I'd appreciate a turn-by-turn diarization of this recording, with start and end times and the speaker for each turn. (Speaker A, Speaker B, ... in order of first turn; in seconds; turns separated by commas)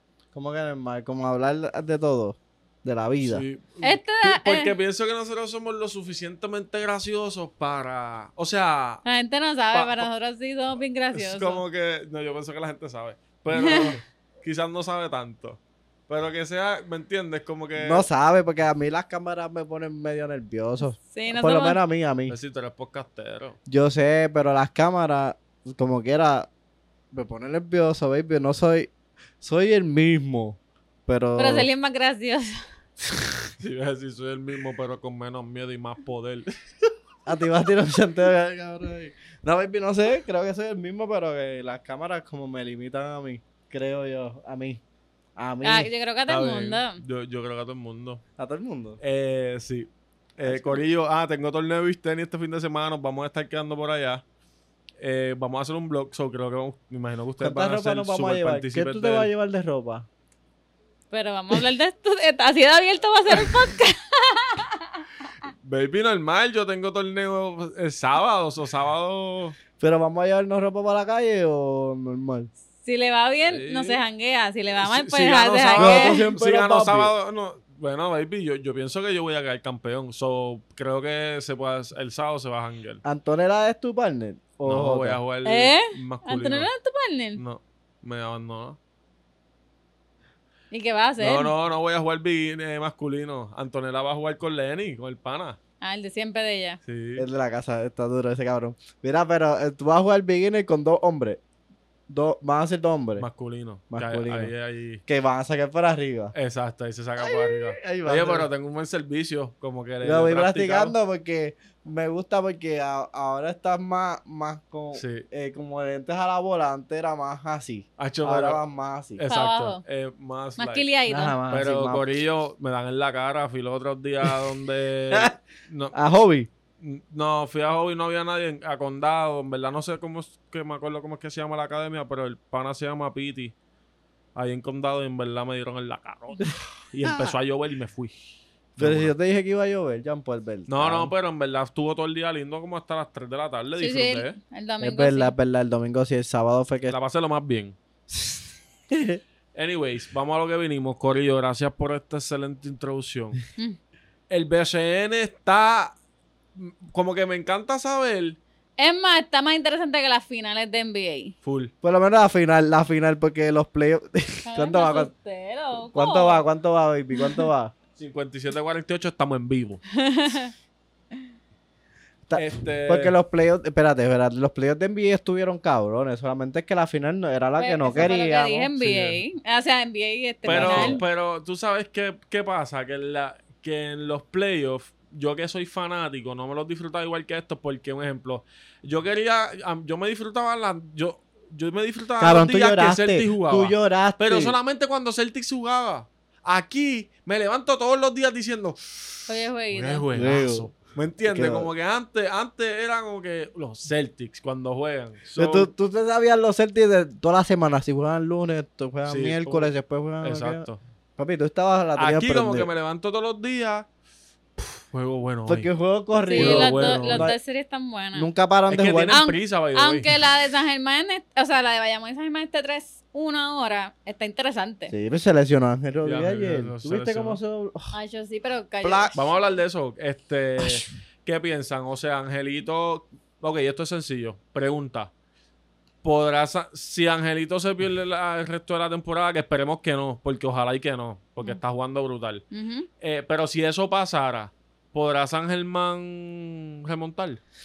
Speaker A: 0.3-3.4, Speaker B: 3.2-9.0, Speaker C: 3.8-4.7, Speaker C: 9.0-11.6, Speaker B: 9.7-10.1, Speaker B: 11.1-18.1, Speaker C: 13.5-14.0, Speaker A: 17.8-22.4, Speaker C: 21.1-21.8, Speaker B: 22.3-23.6, Speaker A: 23.7-26.5, Speaker A: 27.1-31.7, Speaker C: 31.4-32.6, Speaker A: 33.1-33.5, Speaker B: 33.6-36.5, Speaker A: 37.2-44.8, Speaker A: 45.4-45.9, Speaker C: 45.6-47.0, Speaker B: 46.3-48.2, Speaker A: 48.4-49.0, Speaker B: 49.0-54.2, Speaker A: 50.4-50.8, Speaker B: 55.0-59.3, Speaker A: 57.4-60.1, Speaker C: 61.1-65.1, Speaker B: 65.6-69.6, Speaker A: 69.8-72.5, Speaker C: 72.8-76.3, Speaker B: 73.5-74.0, Speaker B: 74.8-83.0, Speaker A: 75.8-77.1, Speaker A: 83.0-85.2, Speaker B: 84.7-86.7, Speaker C: 85.4-87.4, Speaker B: 87.4-88.8, Speaker C: 90.7-91.5, Speaker B: 91.2-95.6, Speaker C: 95.8-96.8, Speaker B: 96.8-97.2, Speaker A: 97.2-101.4, Speaker A: 102.1-103.3, Speaker B: 103.2-105.0, Speaker A: 103.9-104.5, Speaker A: 105.1-106.3, Speaker B: 106.3-110.9, Speaker A: 107.2-108.5, Speaker A: 110.0-119.2, Speaker B: 114.9-115.2, Speaker B: 118.0-118.6, Speaker B: 119.2-120.9, Speaker C: 119.3-119.8, Speaker C: 120.6-121.3, Speaker A: 121.1-122.0, Speaker B: 121.5-126.0, Speaker A: 125.9-126.5, Speaker B: 126.8-133.5, Speaker B: 134.3-138.1, Speaker A: 136.4-137.3, Speaker B: 138.8-139.1, Speaker A: 138.8-141.1, Speaker B: 140.7-144.4, Speaker C: 143.8-145.3, Speaker A: 144.8-147.0, Speaker B: 146.9-147.8, Speaker A: 148.1-149.2, Speaker B: 149.5-153.4, Speaker B: 154.3-155.9, Speaker B: 156.6-158.4, Speaker C: 158.8-161.3, Speaker B: 161.4-161.7, Speaker A: 161.8-165.1, Speaker C: 164.5-166.4, Speaker A: 165.9-167.7, Speaker C: 167.1-167.4, Speaker B: 168.0-169.8, Speaker C: 169.9-170.5, Speaker A: 172.3-178.7, Speaker B: 172.3-173.1, Speaker C: 177.6-181.0, Speaker B: 178.8-179.2, Speaker A: 180.4-181.0, Speaker B: 180.4-205.7, Speaker A: 192.2-194.6, Speaker C: 199.3-200.0, Speaker A: 200.1-200.7, Speaker A: 201.2-201.7, Speaker A: 205.3-210.7, Speaker B: 209.1-209.7, Speaker B: 210.2-210.8, Speaker A: 211.2-212.7, Speaker B: 212.0-213.9, Speaker B: 214.6-215.7, Speaker A: 215.5-217.4, Speaker C: 216.2-218.3, Speaker B: 216.3-217.3, Speaker A: 218.2-219.2, Speaker B: 218.7-220.1, Speaker C: 219.1-224.9, Speaker A: 224.9-227.9, Speaker B: 226.0-227.4, Speaker C: 227.9-229.6, Speaker A: 228.8-229.1, Speaker B: 229.1-235.1, Speaker B: 236.0-242.4, Speaker C: 242.5-242.9, Speaker B: 243.0-247.4